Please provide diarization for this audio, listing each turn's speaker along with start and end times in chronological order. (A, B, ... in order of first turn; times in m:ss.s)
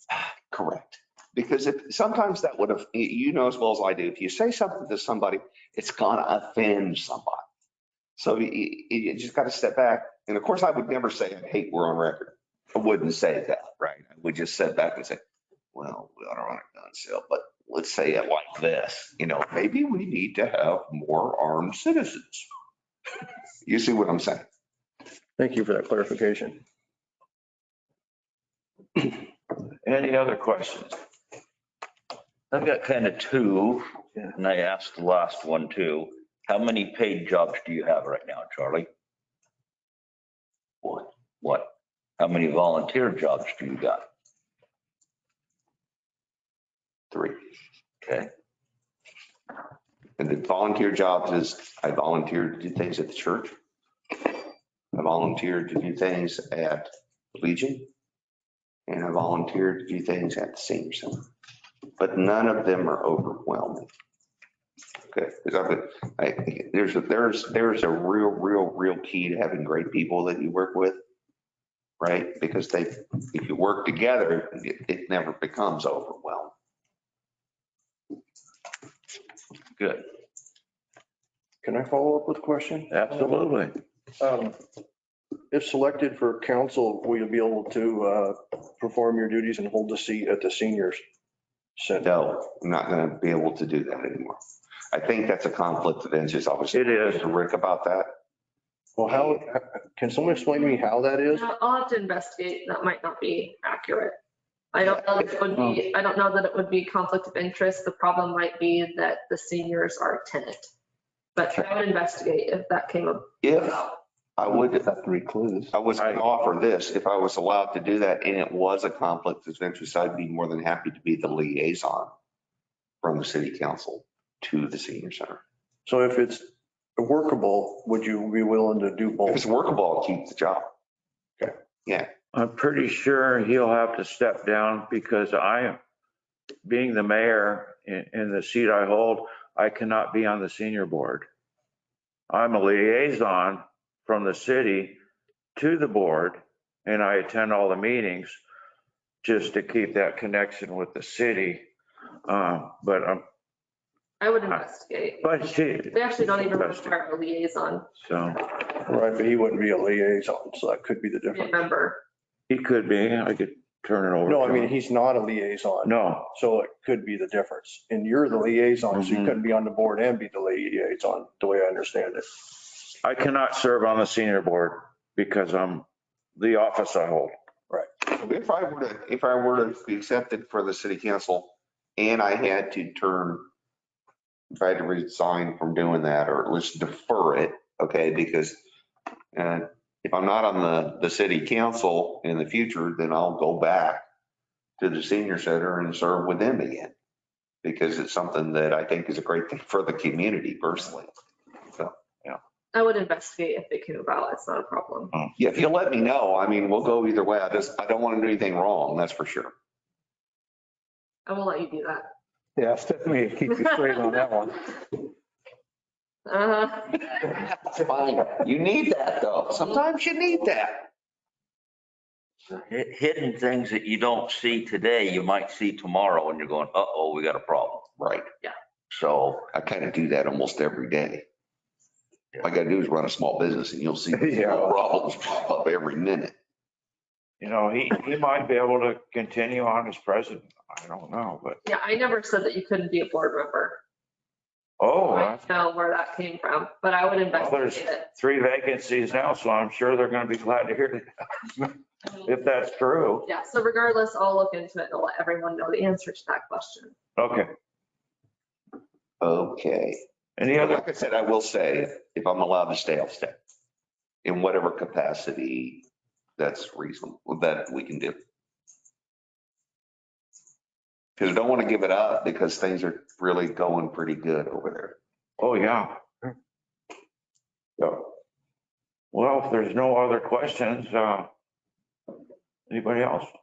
0:00.1-0:07.4 A
0:08.2-0:15.2 A
0:15.7-0:22.5 A
0:23.6-0:24.4 A
0:25.4-0:26.6 B
0:29.8-0:31.0 C
0:32.5-0:38.9 D
0:40.8-0:44.0 D
0:47.1-0:47.4 A
0:48.0-0:48.3 D
0:50.2-0:53.5 A
0:54.9-0:57.9 A
0:58.9-1:01.3 A
1:02.0-1:03.9 A
1:05.1-1:11.0 A
1:12.0-1:16.5 A
1:19.8-1:20.0 D
1:21.6-1:23.0 B
1:22.9-1:23.7 C
1:24.2-1:24.6 B
1:25.5-1:31.0 B
1:31.8-1:32.1 B
1:32.0-1:34.4 A
1:34.9-1:38.1 A
1:36.7-1:37.3 C
1:39.0-1:41.4 B
1:41.3-1:44.2 E
1:44.7-1:50.7 E
1:44.8-1:45.4 A
1:51.3-1:53.9 E
1:53.4-1:53.8 A
1:54.4-1:54.9 A
1:54.6-1:55.7 F
1:55.7-2:02.1 A
2:03.0-2:05.4 A
2:05.8-2:09.4 B
2:09.3-2:10.7 A
2:12.3-2:15.8 C
2:16.6-2:21.3 C
2:22.3-2:25.0 C
2:25.6-2:28.4 C
2:29.2-2:31.7 C
2:32.2-2:33.2 C
2:34.2-2:35.4 E
2:35.2-2:36.9 C
2:35.9-2:37.9 E
2:38.0-2:38.5 C
2:38.8-2:41.5 B
2:41.3-2:42.0 E
2:42.5-2:44.7 C
2:44.2-2:52.3 B
2:45.8-2:46.3 C
2:48.9-2:49.3 C
2:53.0-2:57.3 C
2:58.0-3:03.5 A
3:04.5-3:08.6 A
3:09.3-3:14.0 A
3:14.8-3:16.9 A
3:17.6-3:21.1 A
3:22.7-3:25.1 E
3:25.4-3:29.5 A
3:31.2-3:32.1 E
3:32.6-3:34.8 F
3:33.6-3:34.1 E
3:36.2-3:37.3 E
3:37.3-3:40.9 A
3:42.5-3:47.8 D
3:48.0-3:48.3 A
3:48.9-3:49.4 D
3:49.5-3:51.2 A
3:52.4-3:56.3 A
3:54.1-3:54.7 F
3:57.4-4:01.6 C
4:01.6-4:03.8 E
4:04.8-4:05.4 C
4:05.1-4:08.1 E
4:07.3-4:11.1 C
4:11.6-4:13.3 C
4:13.2-4:17.0 E
4:17.2-4:17.5 C
4:19.2-4:20.0 A
4:20.4-4:20.8 C
4:20.6-4:23.4 A
4:24.2-4:25.8 A
4:26.4-4:28.2 A
4:31.2-4:35.0 A
4:35.4-4:36.0 C
4:37.8-4:38.1 C
4:39.1-4:41.3 C
4:42.7-4:43.3 C